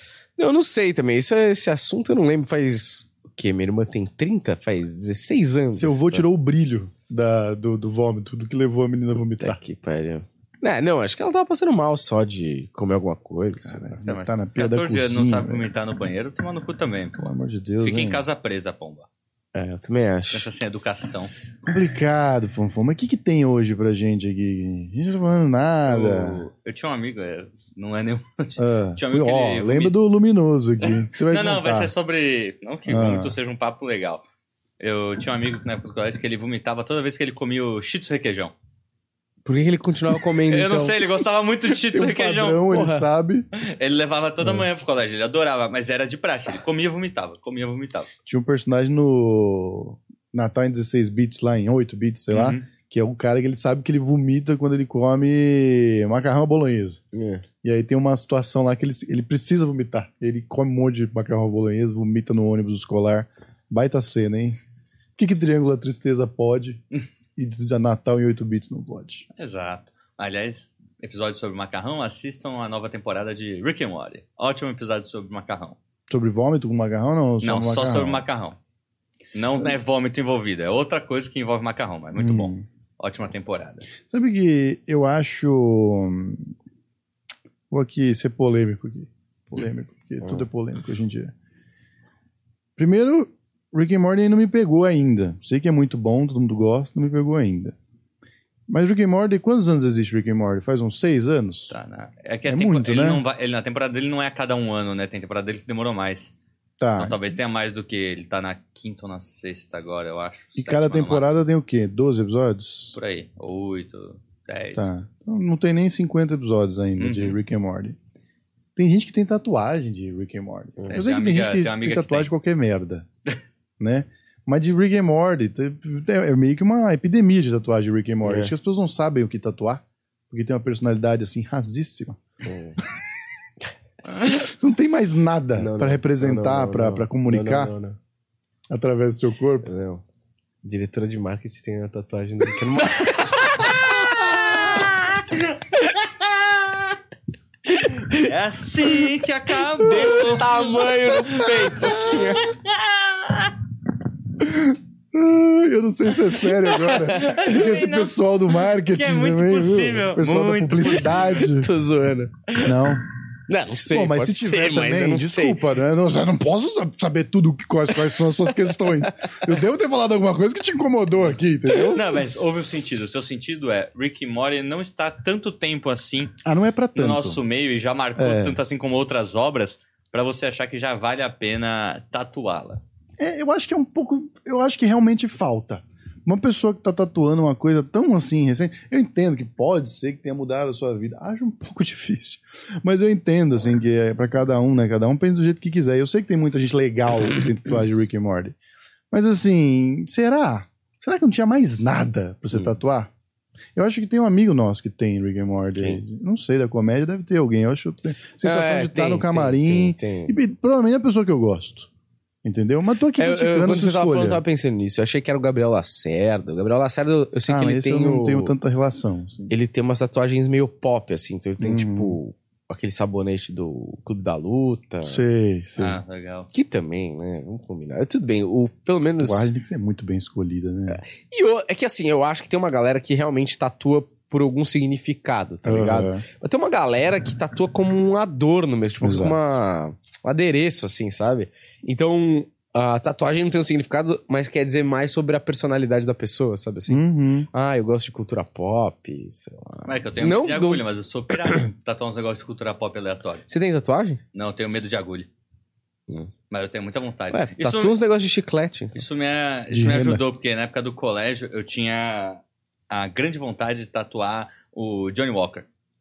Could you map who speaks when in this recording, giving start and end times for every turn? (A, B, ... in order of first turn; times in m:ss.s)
0:00.4-0:06.2 A
0:05.7-0:09.6 B
0:09.4-0:14.0 A
0:13.6-0:15.7 B
0:14.0-0:17.2 C
0:17.2-0:18.2 B
0:17.8-0:19.1 C
0:19.5-0:20.5 A
0:20.3-0:21.3 C
0:21.6-0:26.4 B
0:25.8-0:30.0 C
0:28.6-0:31.9 B
0:30.8-0:34.2 C
0:32.8-0:33.3 B
0:34.8-0:38.5 C
0:39.4-0:41.0 A
0:40.5-0:42.7 C
0:41.8-0:43.5 B
0:42.7-0:43.0 A
0:43.5-0:48.1 C
0:48.3-0:57.0 B
0:52.3-0:52.6 C
0:57.1-0:57.4 A
0:57.6-1:04.6 B
1:05.2-1:06.8 B
1:07.4-1:09.2 B
1:09.4-1:15.8 C
1:16.1-1:18.2 B
1:17.4-1:18.6 C
1:19.3-1:23.9 C
1:22.2-1:22.6 B
1:24.0-1:26.5 B
1:27.7-1:31.3 B
1:32.8-1:37.7 B
1:38.7-1:41.7 B
1:41.7-1:46.3 C
1:42.5-1:43.2 B
1:46.8-1:47.2 B
1:47.0-1:51.3 C
1:50.6-1:53.0 B
1:52.9-1:54.9 C
1:54.7-1:58.0 B
1:57.0-1:57.4 C
1:58.8-2:03.1 B
2:00.9-2:02.3 C
2:03.8-2:12.2 B
2:08.2-2:08.5 A
2:12.4-2:12.8 A
2:14.1-2:14.4 C
2:14.4-2:17.7 B
2:15.6-2:18.0 A
2:18.7-2:19.7 B
2:19.6-2:20.0 A
2:20.6-2:23.8 A
2:24.1-2:24.5 B
2:25.8-2:26.6 C
2:27.7-2:28.3 A
2:28.1-2:30.9 C
2:29.8-2:32.5 A
2:31.4-2:32.0 B
2:31.8-2:33.5 C
2:34.4-2:41.7 B
2:36.8-2:38.1 C
2:38.7-2:41.6 C
2:41.4-2:42.3 A
2:42.6-2:43.0 B
2:43.5-2:45.6 A
2:43.9-2:52.2 B
2:51.8-2:56.3 C
2:56.4-2:57.4 B
2:56.9-3:02.8 C
2:58.2-2:58.6 B
3:03.2-3:18.6 B
3:19.1-3:23.1 B
3:23.7-3:31.9 B
3:25.8-3:26.0 A
3:28.4-3:30.4 A
3:32.4-3:34.4 B
3:33.2-3:38.5 A
3:37.5-3:39.5 B
3:39.5-3:45.2 A
3:41.6-3:42.2 B
3:45.0-3:46.0 B
3:45.8-3:46.5 C
3:46.5-3:49.5 A
3:49.2-3:51.0 B
3:50.9-4:10.8 A
3:55.6-3:56.2 B
3:59.0-3:59.6 B
4:06.9-4:07.5 B
4:09.8-4:13.4 C
4:13.5-4:14.2 A
4:14.3-4:15.3 C
4:16.5-4:18.0 C
4:17.3-4:19.0 A
4:19.0-4:25.6 C
4:19.7-4:20.2 B